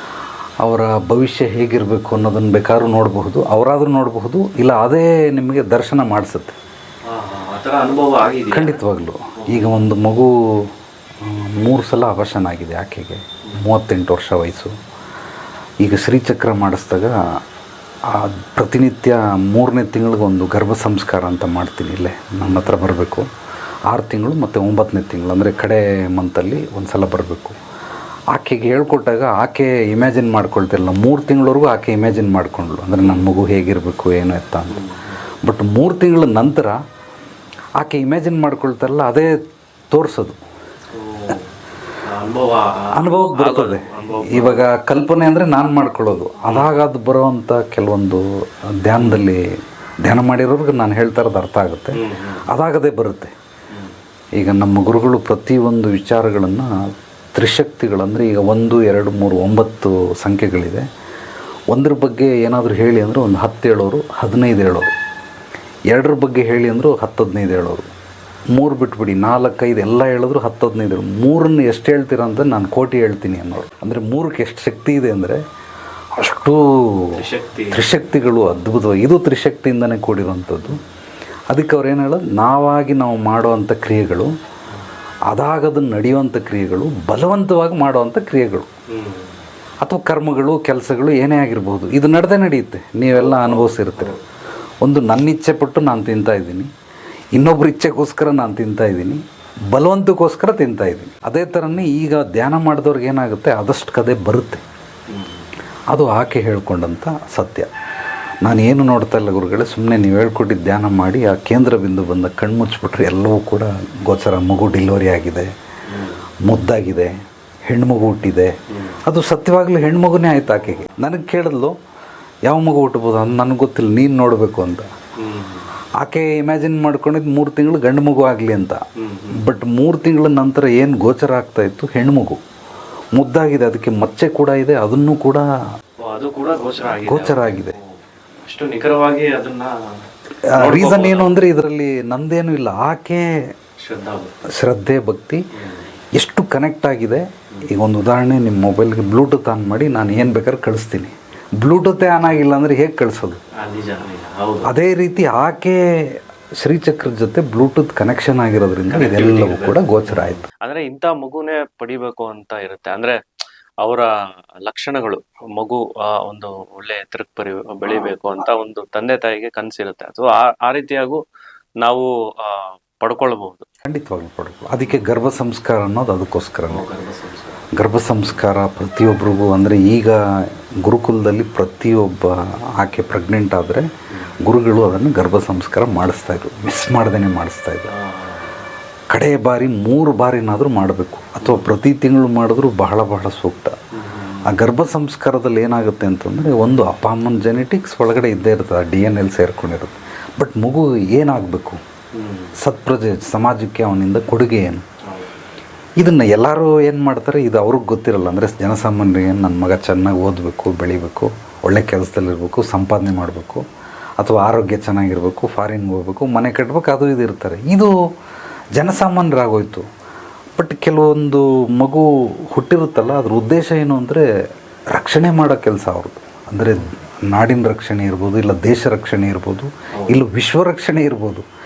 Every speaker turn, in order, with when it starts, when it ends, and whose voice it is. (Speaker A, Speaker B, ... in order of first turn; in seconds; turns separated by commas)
Speaker A: 0.6-6.6, Speaker B: 7.0-8.8, Speaker A: 8.5-14.8, Speaker B: 9.4-9.8, Speaker A: 15.8-17.4, Speaker A: 18.0-23.3, Speaker B: 22.4-22.7, Speaker A: 23.9-27.6, Speaker A: 28.3-34.8, Speaker B: 33.0-33.3, Speaker B: 34.7-35.2, Speaker A: 35.4-36.8, Speaker A: 37.8-40.4, Speaker B: 40.9-41.5, Speaker B: 42.0-44.7, Speaker A: 42.9-49.5, Speaker B: 49.0-49.2, Speaker A: 50.0-53.3, Speaker B: 51.9-52.5, Speaker B: 53.7-54.0, Speaker A: 54.4-60.9, Speaker A: 61.7-64.9, Speaker A: 65.9-67.9, Speaker A: 68.5-75.4, Speaker A: 76.1-80.8, Speaker B: 77.1-77.9, Speaker A: 81.5-84.3, Speaker A: 85.3-88.7, Speaker B: 88.9-89.4, Speaker A: 89.8-94.2, Speaker B: 93.1-94.2, Speaker A: 94.8-96.7, Speaker A: 97.3-104.6, Speaker B: 105.1-105.5, Speaker A: 105.9-107.7, Speaker A: 108.4-115.5, Speaker B: 115.8-116.3, Speaker A: 116.4-117.1, Speaker A: 117.7-121.8, Speaker B: 118.7-119.0, Speaker B: 120.7-121.0, Speaker A: 122.4-124.9, Speaker B: 125.2-125.7, Speaker A: 126.0-132.4, Speaker B: 129.0-129.4, Speaker A: 133.1-135.4, Speaker B: 136.0-139.8, Speaker A: 137.0-137.8, Speaker A: 140.4-143.5, Speaker B: 140.6-141.4, Speaker B: 143.8-144.3, Speaker A: 144.5-145.5, Speaker B: 145.5-145.9, Speaker A: 146.1-153.4, Speaker B: 153.5-154.7, Speaker A: 154.6-160.4, Speaker B: 158.9-163.2, Speaker B: 163.8-171.2, Speaker B: 171.8-173.7, Speaker A: 173.8-176.8, Speaker B: 174.8-175.1, Speaker B: 176.7-177.7, Speaker A: 177.7-180.2, Speaker A: 180.8-183.9, Speaker B: 184.1-184.3, Speaker A: 184.4-187.9, Speaker B: 187.9-188.7, Speaker A: 189.1-193.8, Speaker B: 191.4-191.7, Speaker B: 193.9-194.5, Speaker A: 194.4-201.8, Speaker B: 202.1-202.5, Speaker A: 202.6-204.8, Speaker B: 205.0-205.4, Speaker A: 206.0-213.6, Speaker A: 214.2-217.9, Speaker A: 218.7-219.8, Speaker A: 220.6-224.2, Speaker A: 224.9-231.4, Speaker B: 229.9-230.2